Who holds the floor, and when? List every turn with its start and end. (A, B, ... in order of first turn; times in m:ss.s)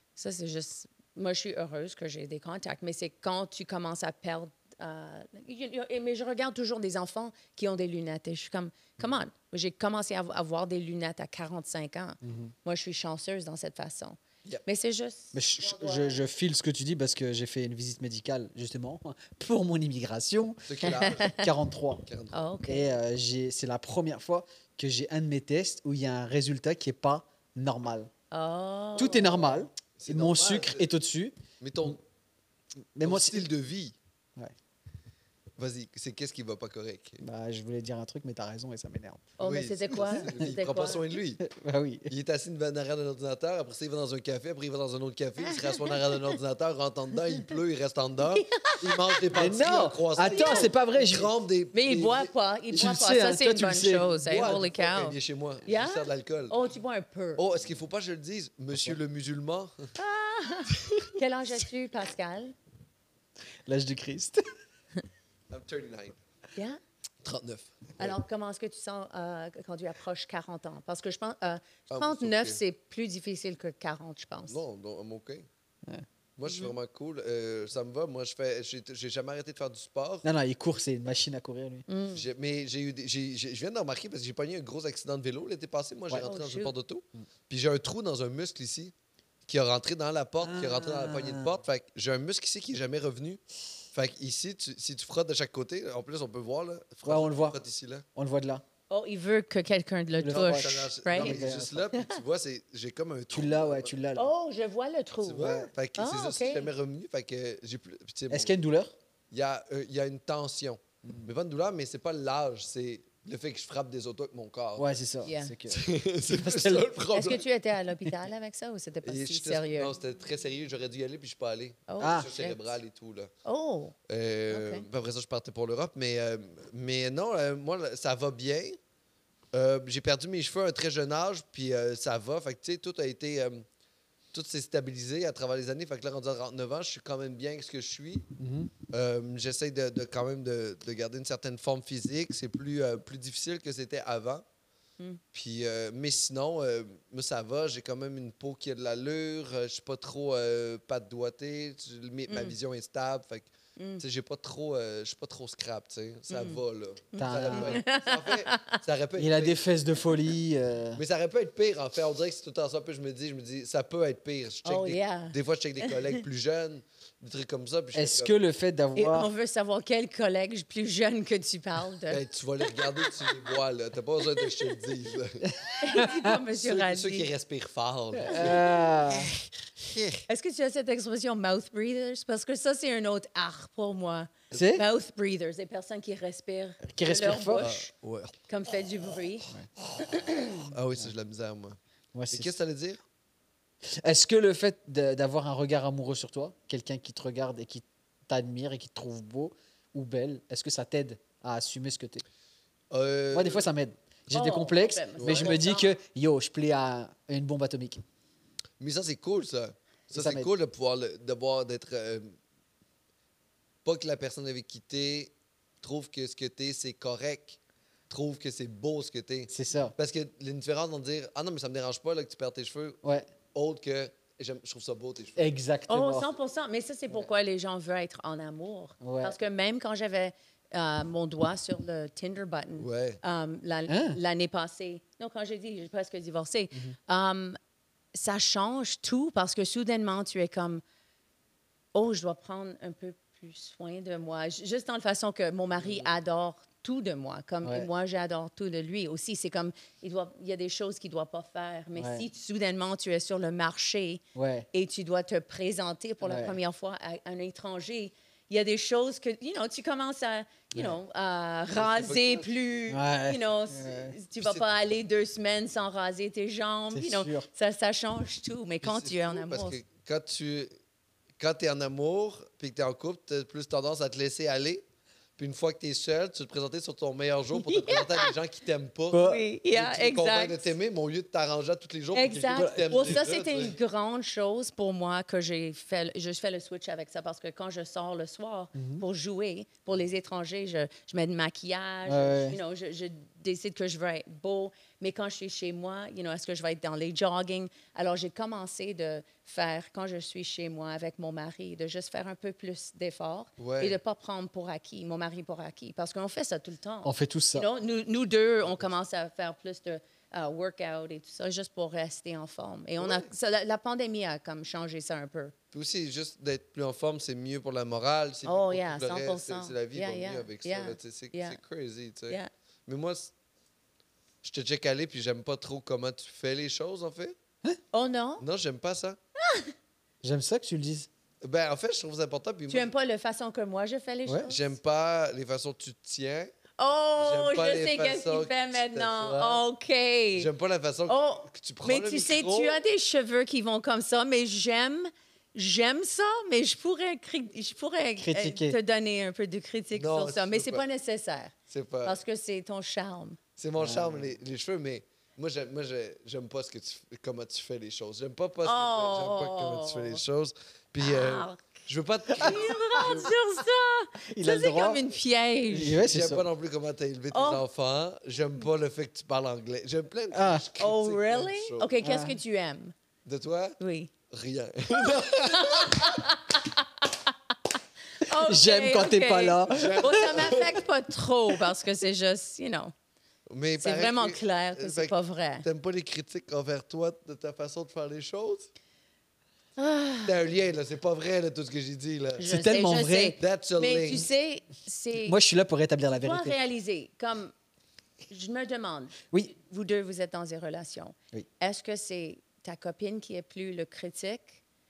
0:00.2-0:16.2 A
0:12.2-0:12.5 B
0:15.3-0:22.0 B
0:20.7-0:21.4 C
0:20.8-0:21.5 A
0:22.0-0:22.5 C
0:22.3-0:22.9 A
0:22.7-0:28.1 B
0:28.3-0:29.6 A
0:29.0-0:31.9 B
0:30.0-0:30.9 C
0:31.6-0:32.0 C
0:33.0-0:33.5 B
0:33.0-0:34.0 C
0:35.6-0:37.2 C
0:37.2-0:39.3 B
0:39.4-0:41.0 A
0:39.4-0:41.4 C
0:41.4-0:42.1 B
0:42.1-0:52.3 C
0:45.4-0:46.4 A
0:48.3-0:49.2 A
0:49.3-0:51.3 B
0:50.2-0:50.7 A
0:51.7-0:57.4 A
0:52.7-0:54.6 B
0:54.3-0:56.6 C
0:57.4-0:59.9 C
1:00.0-1:02.6 A
1:03.7-1:04.4 B
1:05.5-1:06.2 C
1:07.2-1:08.2 C
1:08.0-1:14.6 A
1:11.9-1:12.6 C
1:14.5-1:15.5 C
1:16.4-1:20.3 C
1:16.5-1:16.7 A
1:20.2-1:21.9 B
1:21.9-1:22.2 A
1:22.1-1:28.9 C
1:26.2-1:26.7 A
1:29.5-1:33.4 C
1:30.4-1:31.6 B
1:33.9-1:38.0 C
1:37.0-1:37.6 B
1:38.2-1:38.6 B
1:38.9-1:41.4 A
1:40.2-1:41.9 B
1:40.3-1:43.9 C
1:41.9-1:42.2 A
1:43.3-1:44.3 B
1:44.2-1:46.7 A
1:45.2-1:48.5 C
1:45.4-1:45.7 B
1:48.3-1:48.9 B
1:49.3-1:54.9 C
1:54.8-1:56.9 B
1:55.2-1:55.6 A
1:55.7-1:57.4 C
1:57.1-2:00.0 A
1:59.0-2:03.3 C
2:01.9-2:02.6 A
2:02.0-2:02.3 B
2:03.4-2:04.0 A
2:04.1-2:08.8 C
2:04.5-2:04.9 A
2:09.5-2:13.7 C
2:14.3-2:18.3 C
2:18.4-2:18.7 B
2:18.9-2:24.4 C
2:25.3-2:39.6 C
2:32.3-2:32.6 A
2:33.8-2:34.0 A
2:36.3-2:36.6 A
2:37.1-2:38.8 A
2:37.2-2:37.8 B
2:39.2-2:41.0 B
2:41.0-2:48.3 C
2:44.6-2:46.2 A
2:48.0-2:49.3 B
2:49.0-2:52.2 A
2:52.1-2:55.5 C
2:55.4-2:56.4 B
2:55.8-2:57.3 A
2:56.5-2:58.7 C
2:58.1-2:59.3 B
2:58.3-2:59.4 A
2:59.8-3:00.2 C
3:00.3-3:07.9 A
3:04.5-3:04.9 B
3:06.9-3:07.7 B
3:07.6-3:08.4 C
3:08.5-3:10.7 A
3:10.6-3:11.8 C
3:12.1-3:12.5 B
3:12.3-3:13.0 C
3:13.8-3:22.2 B
3:22.9-3:23.7 C
3:23.3-3:28.0 B
3:24.3-3:26.0 A
3:25.2-3:25.6 C
3:28.8-3:32.4 C
3:30.1-3:30.5 B
3:33.8-3:37.6 C
3:38.1-3:43.0 C
3:39.5-3:39.9 B
3:43.0-3:43.3 B
3:43.5-3:45.5 C
3:45.4-3:46.3 B
3:45.9-3:57.6 A
3:49.0-3:49.4 B
3:52.8-3:53.2 C
3:53.9-3:54.2 B
3:58.1-4:00.8 A
4:01.9-4:14.2 A
4:07.6-4:07.9 B
4:12.0-4:12.3 B
4:14.4-4:14.7 B
4:14.7-4:29.8 A
4:16.2-4:16.6 B
4:21.7-4:22.5 C
4:22.9-4:24.2 B
4:26.9-4:27.5 B
4:28.8-4:30.7 C
4:31.4-4:34.8 C
4:35.4-4:43.8 C
4:37.6-4:38.3 A
4:39.1-4:39.4 B
4:39.2-4:40.7 A
4:42.1-5:15.6 A
4:42.5-4:43.2 B
4:48.8-4:49.0 B
4:52.1-4:52.6 B
5:03.6-5:04.0 C
5:07.0-5:07.7 B
5:13.0-5:13.3 C
5:15.7-5:23.3 C
5:18.4-5:21.6 A
5:24.4-5:27.4 C
5:27.9-5:28.4 A
5:28.4-5:29.2 C
5:29.4-5:29.7 A
5:30.2-5:31.1 B
5:31.4-5:32.9 C
5:32.7-5:34.8 A
5:34.3-5:34.5 B
5:34.5-5:36.5 C
5:36.8-5:40.5 A
5:37.2-5:39.6 C
5:40.4-5:42.8 C
5:41.1-5:51.5 A
5:48.2-5:48.8 B
5:49.9-5:50.8 C
5:51.7-5:52.2 C
5:52.0-5:53.4 A
5:53.6-6:03.3 C
5:53.8-5:54.3 B
5:58.6-6:00.2 A
6:01.0-6:01.9 A
6:02.3-6:03.3 B
6:02.4-6:06.0 A
6:04.3-6:05.0 B
6:05.7-6:06.4 B
6:06.0-6:11.9 C
6:07.3-6:07.6 A
6:10.3-6:10.7 B
6:10.8-6:12.9 A
6:12.0-6:12.4 B
6:13.3-6:13.8 C
6:13.8-6:14.1 A
6:14.3-6:16.3 C
6:15.1-6:17.1 A
6:18.2-6:22.9 A
6:18.3-6:20.5 B
6:19.7-6:20.8 C
6:23.5-6:28.7 C
6:23.8-6:25.7 A
6:29.8-6:30.4 A
6:30.2-6:32.5 C
6:32.4-6:35.4 A
6:32.4-6:33.4 B
6:33.4-6:34.2 C
6:35.2-6:36.6 B
6:36.2-6:37.5 A
6:38.3-6:44.6 A